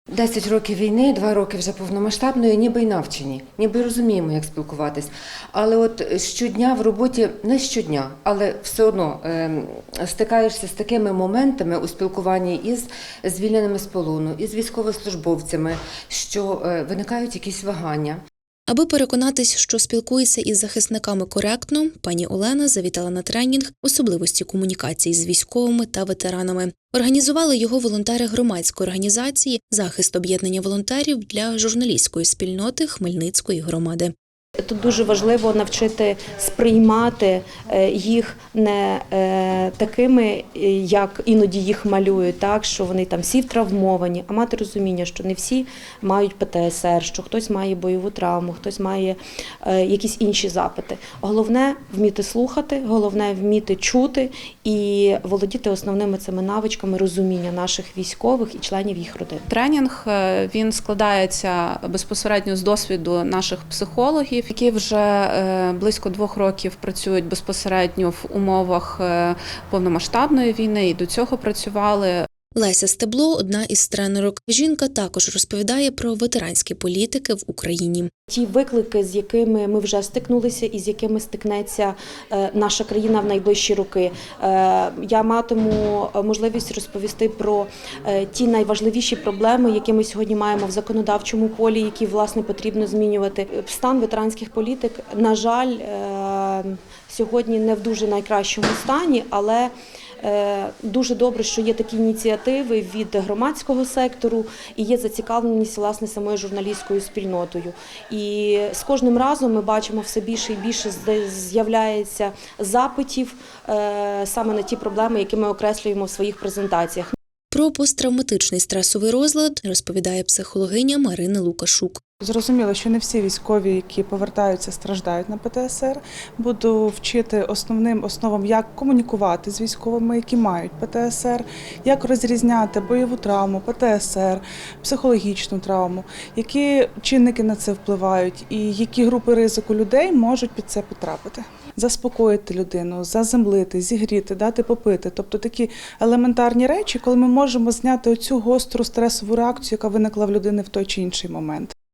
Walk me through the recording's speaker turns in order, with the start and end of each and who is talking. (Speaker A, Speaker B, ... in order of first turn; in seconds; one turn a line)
Speaker A: 0.1-18.2
Speaker B: 18.7-34.1
Speaker C: 34.7-59.5
Speaker D: 59.5-72.2
Speaker B: 72.5-78.1
Speaker C: 78.3-99.7
Speaker C: 100.2-117.1
Speaker B: 117.5-122.0
Speaker E: 122.2-151.7